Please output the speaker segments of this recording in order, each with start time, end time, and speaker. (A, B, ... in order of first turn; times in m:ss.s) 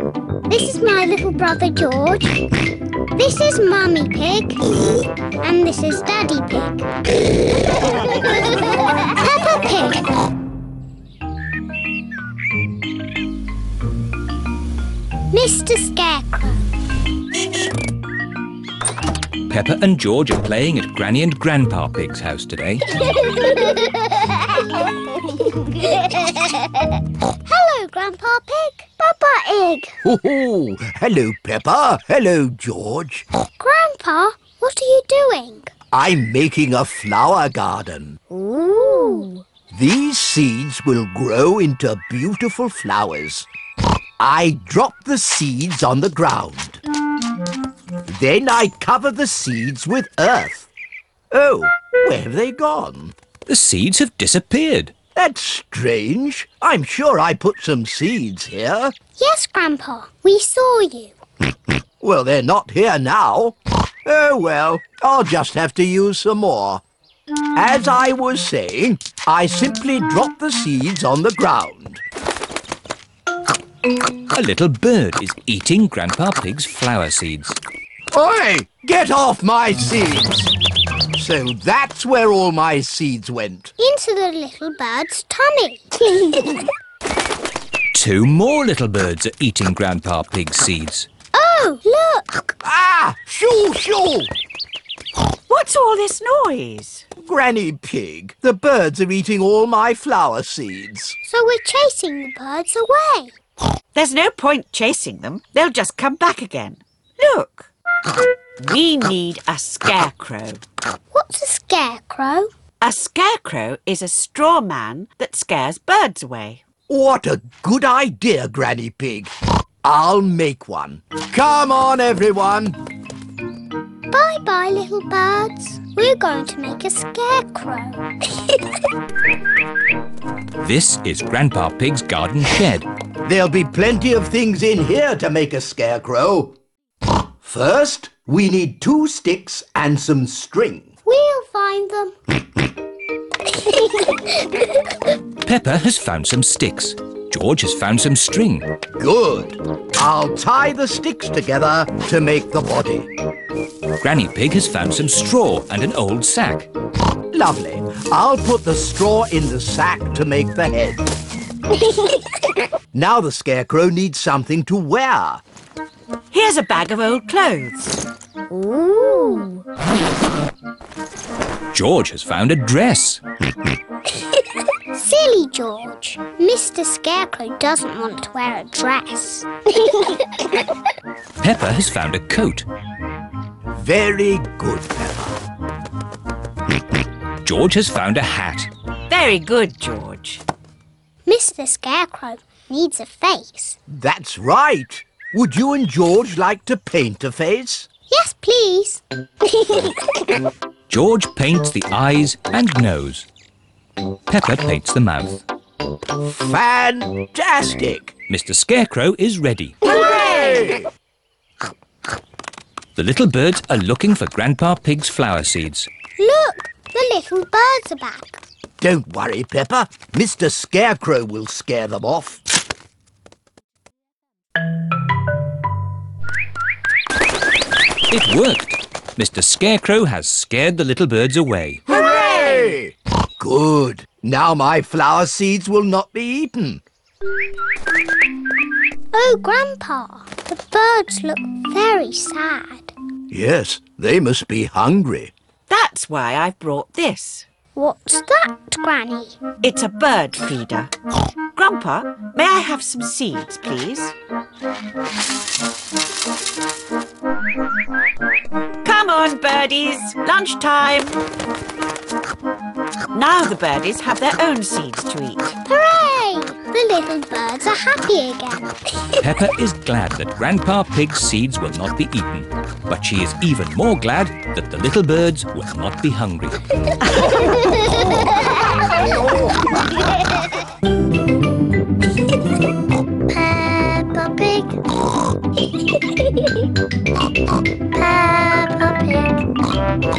0:00.5-0:02.5 A
0:03.2-0:04.6 A
0:05.4-0:06.9 A
0:08.9-0:10.1 A
0:15.3-0:16.6 A
0:19.5-0:22.9 B
0:23.2-0:24.5 A
0:25.5-0:26.4 A
0:27.4-0:29.9 A
0:30.0-0:33.2 C
0:33.6-0:35.7 A
0:35.9-0:38.2 C
0:38.3-0:39.4 A
0:39.7-0:43.5 C
0:44.2-0:46.8 C
0:48.0-0:50.7 C
0:51.3-0:53.1 C
0:53.5-0:55.0 B
0:55.1-0:58.9 C
0:59.2-1:01.1 A
1:02.0-1:06.8 C
1:07.6-1:12.0 C
1:14.3-1:17.6 B
1:18.1-1:20.5 C
1:21.1-1:23.7 C
1:23.8-1:25.8 A
1:27.9-1:31.1 B
1:31.3-1:32.6 A
1:32.6-1:34.3 C
1:35.5-1:37.0 D
1:37.2-1:41.2 C
1:41.2-1:43.3 A
1:43.9-1:47.7 D
1:48.6-1:50.6 D
1:51.1-1:52.5 A
1:52.8-1:56.6 D
1:56.9-1:59.3 C
1:59.8-2:02.8 C
2:04.1-2:08.6 A
2:10.6-2:12.9 B
2:13.2-2:16.6 C
2:17.4-2:20.9 C
2:21.0-2:22.1 A
2:23.7-2:24.2 A
2:25.4-2:28.7 B
2:29.0-2:33.1 C
2:34.0-2:36.7 B
2:37.3-2:41.0 C
2:42.9-2:45.4 C
2:46.3-2:48.0 D
2:48.5-2:49.6 A
2:51.7-2:53.2 B
2:54.9-3:00.0 A
3:01.4-3:02.6 B
3:03.8-3:05.4 C
3:07.4-3:08.7 B
3:09.1-3:10.4 D
3:11.2-3:13.8 A
3:13.9-3:17.9 C
3:18.1-3:19.0 A
3:19.6-3:19.9 A
3:20.9-3:23.3 B
3:24.3-3:25.4 B
3:26.2-3:28.1 C
3:28.3-3:29.8 B
3:29.8-3:30.9 C
3:33.0-3:35.9 B
3:36.2-3:38.4 A
3:38.8-3:42.4 C
3:48.1-3:51.8 B
3:51.8-3:56.8 C
3:59.1-4:02.9 A
4:03.3-4:05.3 C
4:05.7-4:07.4 D
4:07.8-4:09.4 A
4:09.6-4:10.9 D
4:11.6-4:14.1 D
4:18.8-4:21.2 D
4:23.1-4:25.5 D
4:25.6-4:29.4 A
4:29.2-4:36.6 B
4:37.2-4:39.2 A
4:43.3-4:44.9 A
4:46.2-4:46.5 A
4:47.9-4:49.5 A